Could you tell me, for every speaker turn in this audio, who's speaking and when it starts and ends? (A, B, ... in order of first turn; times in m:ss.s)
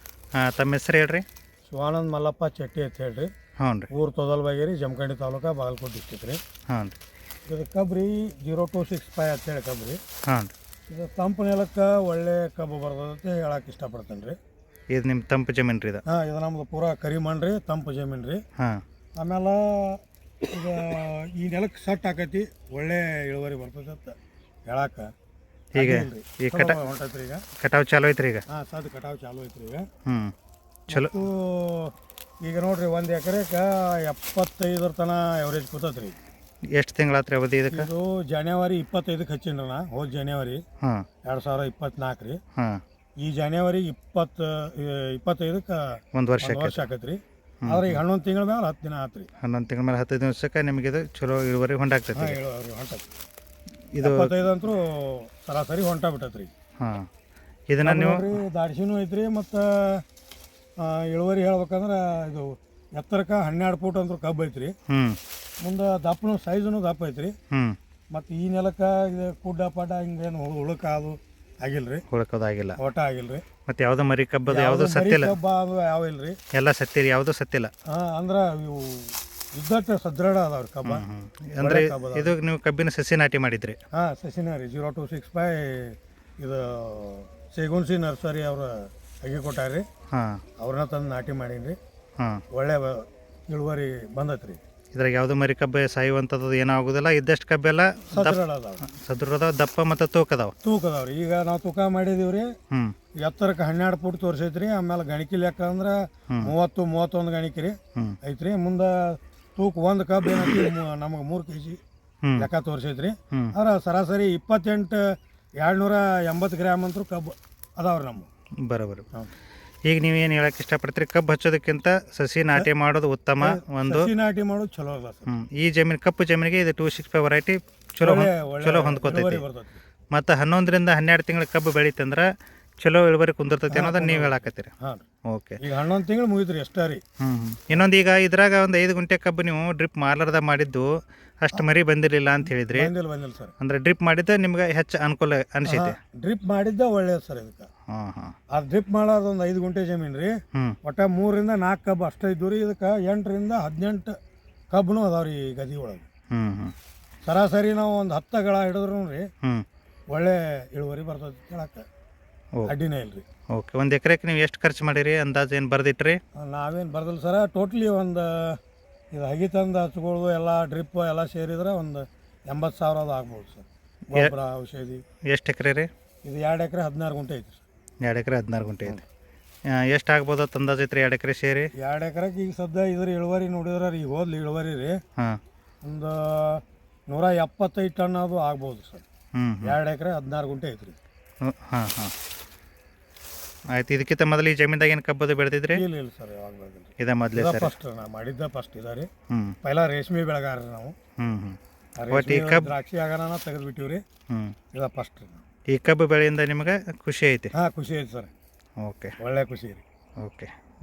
0:00.4-0:01.2 A
0:01.7-0:03.3 B
0:03.6-0:03.9 A
0:03.9-0:06.4 B
0:06.7-0:07.0 A
0:07.5-0:10.0 B
0:10.9-0:14.4 B
0:14.9-0:16.0 A
0:16.1-0:18.4 B
0:18.6-0:18.8 A
0:19.2-0:24.2 B
0:24.7-0:25.1 B
0:25.8-0:26.8 A
0:25.8-0:27.4 B
0:27.6-0:28.4 A
0:28.5-0:29.9 B
0:30.1-0:30.3 A
0:30.9-0:36.2 B
0:30.9-0:31.1 A
0:36.8-0:37.9 A
0:37.7-0:40.6 B
0:41.2-0:42.4 B
0:42.6-0:42.8 A
0:43.2-0:49.3 B
0:46.1-0:46.8 A
0:47.6-0:48.0 A
0:49.4-0:52.4 A
0:52.2-0:53.1 B
0:53.9-0:54.3 A
0:54.0-0:56.5 B
0:56.8-0:57.1 A
0:57.7-0:58.4 A
0:57.8-1:00.0 B
1:00.8-1:04.7 B
1:04.9-1:05.2 A
1:05.6-1:07.3 B
1:07.5-1:07.8 A
1:08.1-1:12.0 B
1:12.1-1:12.8 A
1:12.8-1:13.4 B
1:13.7-1:15.3 A
1:14.5-1:16.4 B
1:16.5-1:17.7 A
1:17.9-1:21.0 B
1:20.8-1:23.8 A
1:21.6-1:22.3 B
1:23.9-1:29.8 B
1:30.1-1:30.4 A
1:30.6-1:31.8 B
1:32.5-1:34.6 B
1:34.9-1:40.5 A
1:38.1-1:38.8 B
1:40.6-1:42.5 B
1:43.2-1:51.8 B
1:52.4-1:55.0 B
1:55.6-1:58.3 B
1:58.7-1:59.1 A
1:59.9-2:04.1 A
2:03.4-2:05.3 B
2:05.3-2:09.4 A
2:08.0-2:09.8 B
2:10.1-2:12.3 A
2:12.8-2:14.7 A
2:13.7-2:15.0 B
2:15.3-2:15.6 A
2:15.6-2:17.0 B
2:17.2-2:20.9 A
2:21.4-2:22.9 A
2:22.7-2:23.5 B
2:23.6-2:26.0 A
2:25.6-2:27.7 B
2:27.9-2:28.4 A
2:28.5-2:34.2 B
2:34.7-2:36.1 B
2:36.3-2:36.7 A
2:37.2-2:39.3 B
2:40.1-2:41.8 B
2:42.7-2:43.2 B
2:43.5-2:46.2 A
2:46.4-2:48.6 B
2:49.1-2:55.0 B
2:55.3-2:55.9 A
2:56.2-2:57.6 B
2:58.0-2:59.0 A
2:59.7-3:01.7 A
3:01.8-3:05.0 B
3:05.8-3:09.0 B
3:09.4-3:09.8 A
3:09.6-3:11.0 B
3:11.4-3:12.1 A
3:13.8-3:15.8 A
3:15.7-3:19.1 B
3:17.0-3:17.7 A
3:19.3-3:19.6 A
3:19.6-3:21.0 B
3:21.2-3:21.6 A
3:22.0-3:24.0 B
3:22.1-3:22.7 A
3:24.3-3:24.6 A
3:24.7-3:25.4 B
3:25.7-3:27.5 A
3:27.5-3:28.3 B
3:28.8-3:29.2 A
3:29.2-3:29.8 B
3:30.2-3:30.5 A